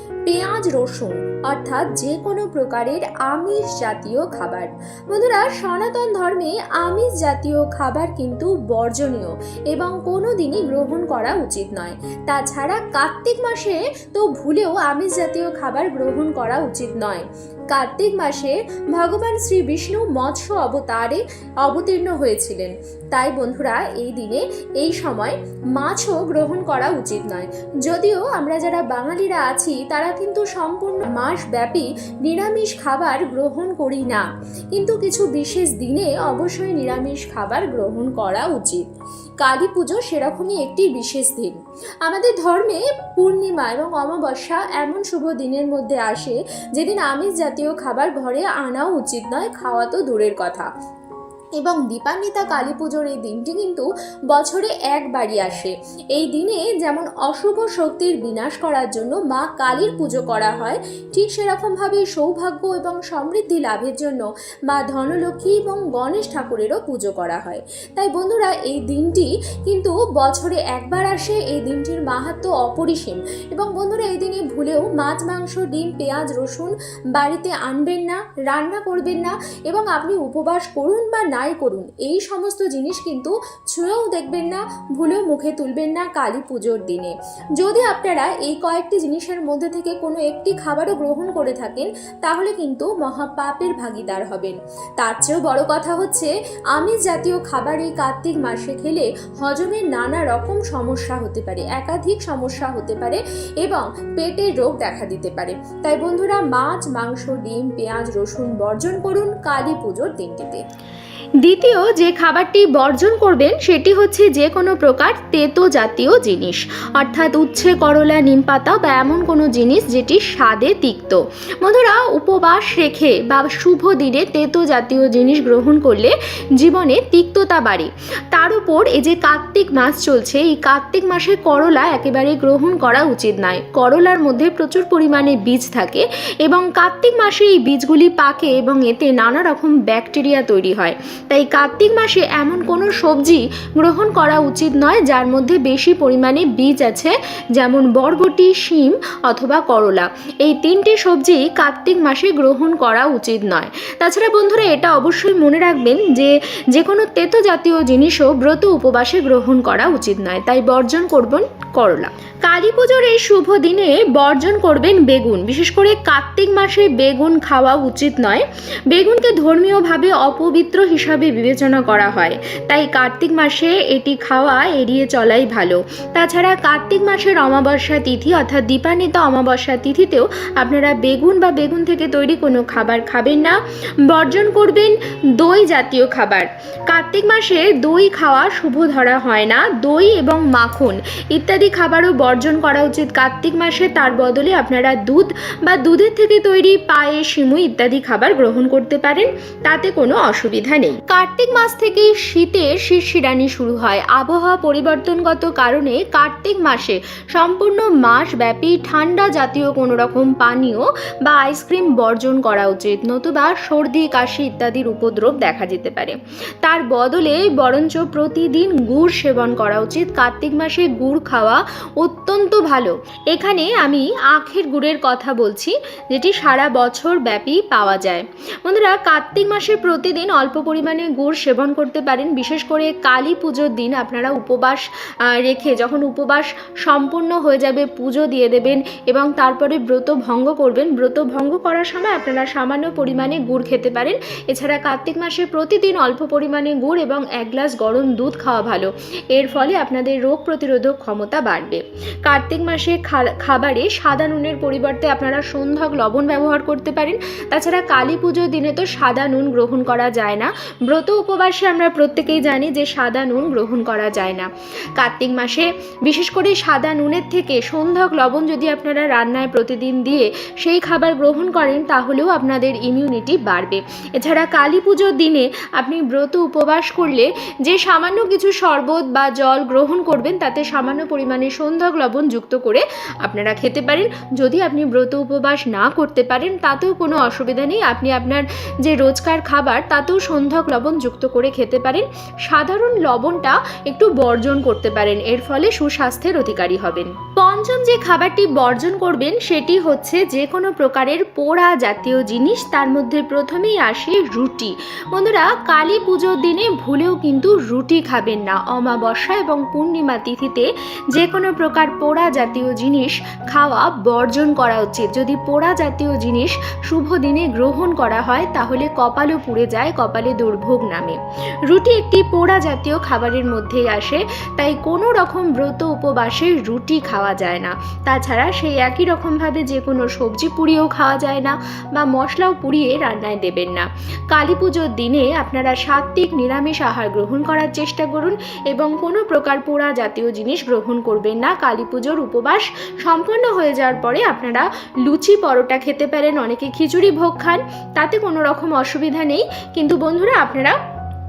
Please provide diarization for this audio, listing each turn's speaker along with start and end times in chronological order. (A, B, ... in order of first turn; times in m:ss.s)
0:00.2-0:38.8 A
0:39.4-0:50.7 A
0:51.6-1:50.6 A
1:51.4-5:50.8 A